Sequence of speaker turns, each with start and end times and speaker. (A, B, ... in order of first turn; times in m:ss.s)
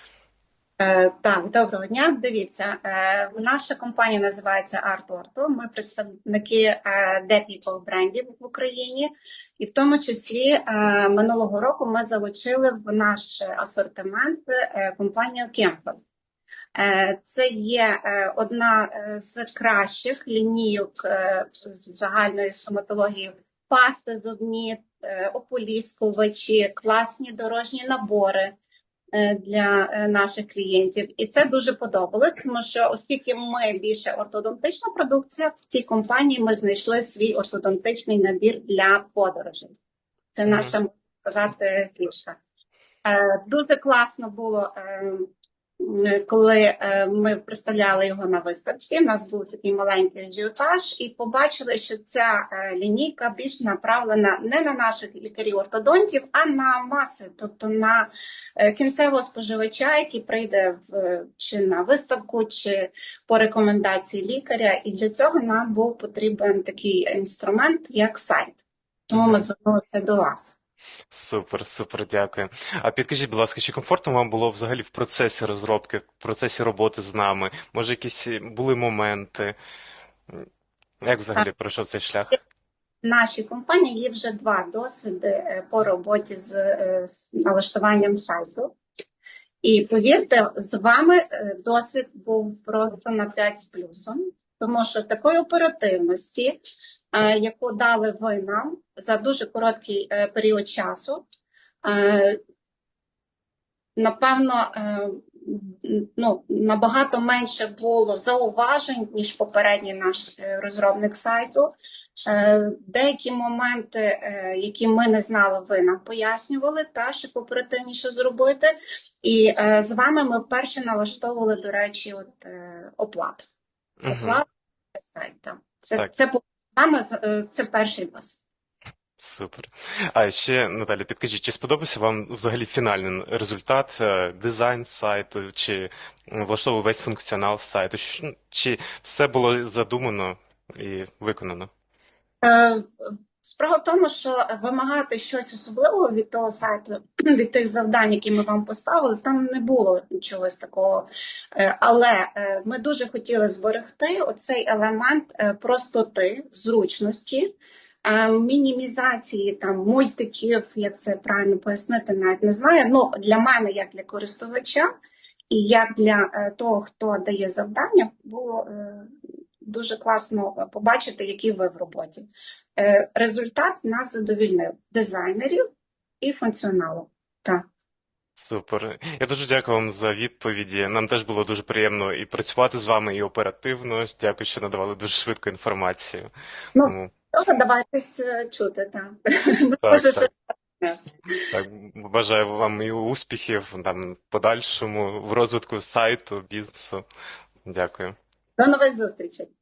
0:00.8-0:16.0 A
0:16.8-0:28.6 A
0:29.2-0:39.8 A
0:40.3-0:42.4 A
0:40.5-0:40.7 B
0:43.0-0:45.3 A
0:45.8-1:10.6 A
1:09.1-1:09.4 B
1:11.1-1:19.6 B
1:21.0-1:22.4 B
1:23.0-1:28.7 A
1:29.6-1:36.6 A
1:37.1-1:41.2 A
1:41.8-1:42.4 A
1:44.0-1:51.7 A
1:52.3-2:03.5 A
2:04.0-2:04.4 B
2:04.1-2:04.5 A
2:05.0-2:08.4 A
2:09.2-2:21.7 B
2:22.4-2:22.8 A
2:23.4-2:44.9 A
2:45.5-2:49.1 A
2:49.7-2:55.6 A
2:56.2-2:57.6 A
2:58.4-3:06.3 B
3:06.8-3:11.3 A
3:06.8-3:07.1 B
3:09.8-3:10.3 B
3:11.5-3:17.0 B
3:17.7-3:18.2 B
3:18.6-3:19.5 A